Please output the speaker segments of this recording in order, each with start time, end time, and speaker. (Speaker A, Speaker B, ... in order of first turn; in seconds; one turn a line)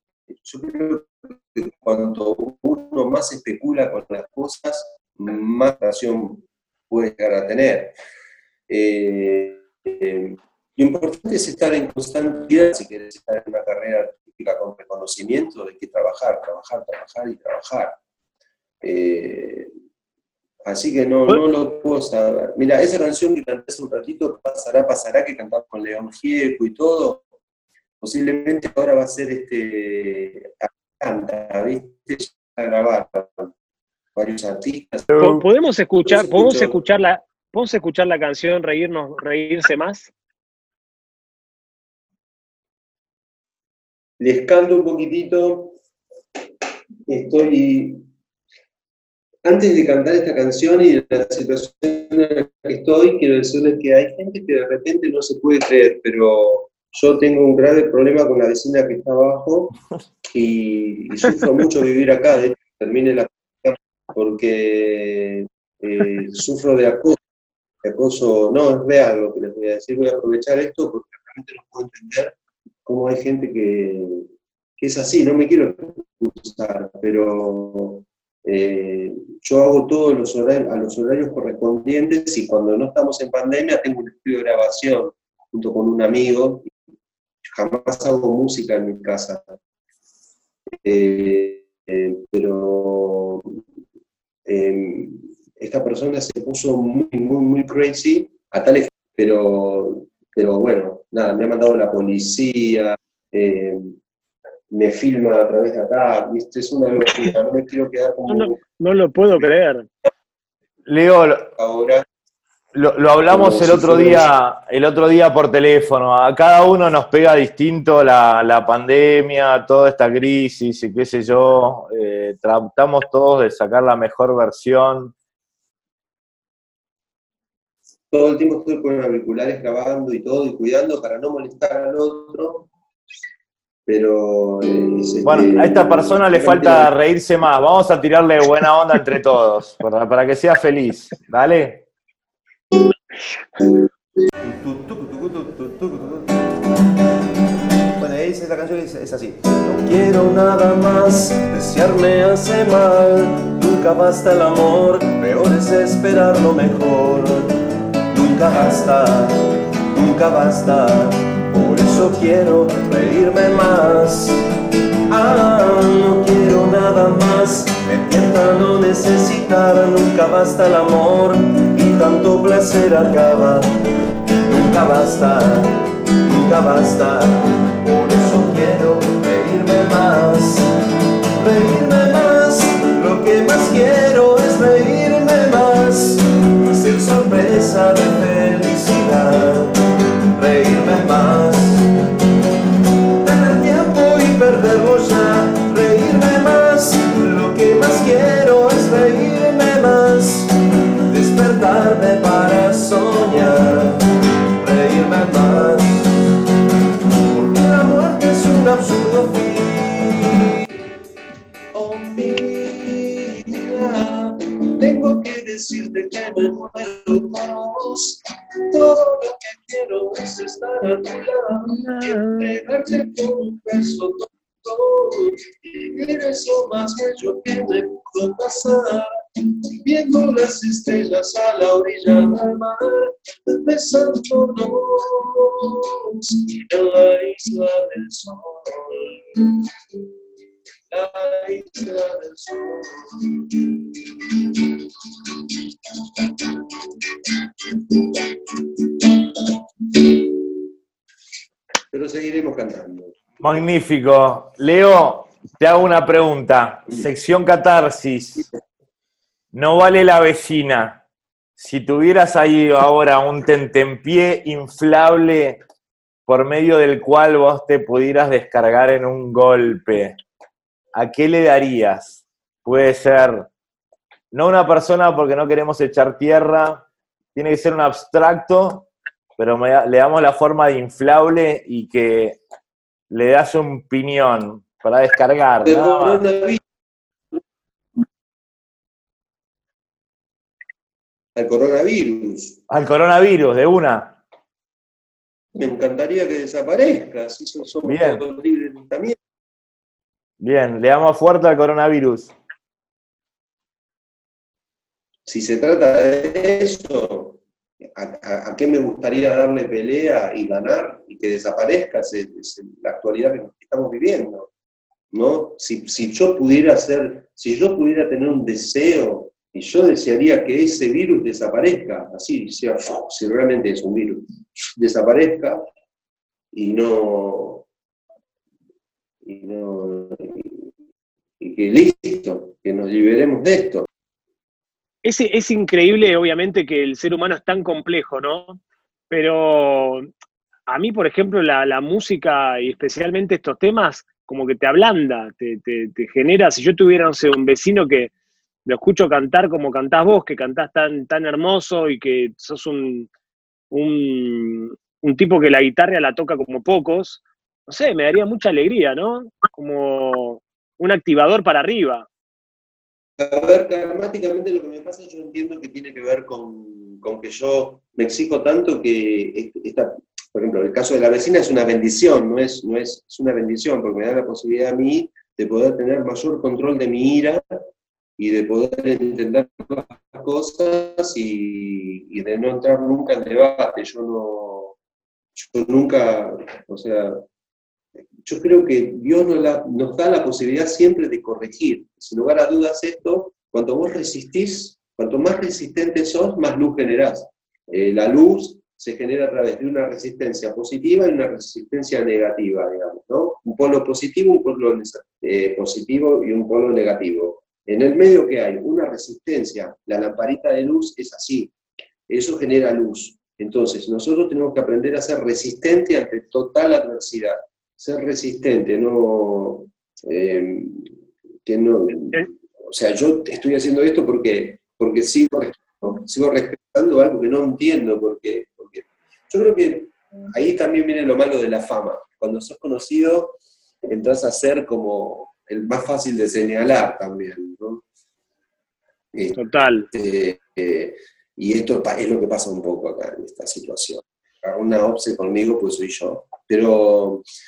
Speaker A: 0.4-8.0
Speaker A: 8.7-18.0
Speaker A: 18.8-19.7
Speaker A: 20.6-27.2
Speaker A: 28.0-33.5
Speaker A: 34.1-35.2
Speaker B: 35.1-35.4
Speaker C: 35.2-40.1
Speaker A: 36.0-36.8
Speaker A: 44.2-45.8
Speaker A: 47.1-48.0
Speaker A: 49.5-59.8
Speaker A: 60.3-67.2
Speaker A: 67.8-86.7
Speaker A: 87.5-89.6
Speaker A: 90.8-93.6
Speaker A: 94.5-104.0
Speaker A: 104.7-108.6
Speaker C: 108.3-109.9
Speaker B: 110.9-111.5
Speaker A: 111.6-112.0
Speaker B: 112.7-125.1
Speaker A: 113.3-114.3
Speaker A: 128.1-132.7
Speaker A: 133.9-136.9
Speaker B: 135.2-141.9
Speaker A: 144.4-146.5
Speaker A: 148.0-157.6
Speaker A: 158.1-164.4
Speaker A: 165.1-173.7
Speaker A: 174.4-180.7
Speaker A: 181.4-189.8
Speaker A: 190.3-191.9
Speaker A: 193.2-200.5
Speaker A: 201.1-204.1
Speaker A: 204.6-206.3
Speaker A: 207.2-210.7
Speaker A: 211.7-229.1
Speaker C: 221.7-222.5
Speaker A: 229.7-239.6
Speaker A: 240.9-244.7
Speaker A: 246.2-246.5
Speaker A: 251.9-253.4
Speaker B: 253.4-258.5
Speaker B: 259.5-261.0
Speaker B: 261.6-265.6
Speaker B: 266.3-270.2
Speaker B: 270.9-273.5
Speaker B: 274.3-282.4
Speaker B: 283.1-286.2
Speaker A: 285.6-286.6
Speaker A: 291.4-292.6
Speaker B: 292.7-294.2
Speaker A: 295.5-299.2
Speaker B: 297.9-298.2
Speaker B: 300.4-302.3
Speaker A: 305.3-307.4
Speaker A: 307.9-314.5
Speaker A: 315.1-324.2
Speaker A: 324.8-325.6
Speaker A: 326.5-327.7
Speaker A: 329.2-330.7
Speaker A: 331.4-333.9
Speaker C: 335.0-340.1
Speaker C: 340.7-348.1
Speaker C: 348.7-353.1
Speaker C: 353.7-362.1
Speaker A: 363.2-377.4
Speaker A: 378.2-384.8
Speaker A: 385.4-387.3
Speaker A: 388.2-411.5
Speaker A: 412.1-420.9
Speaker A: 421.5-437.9
Speaker A: 439.1-439.4
Speaker C: 439.4-439.9
Speaker A: 439.9-447.2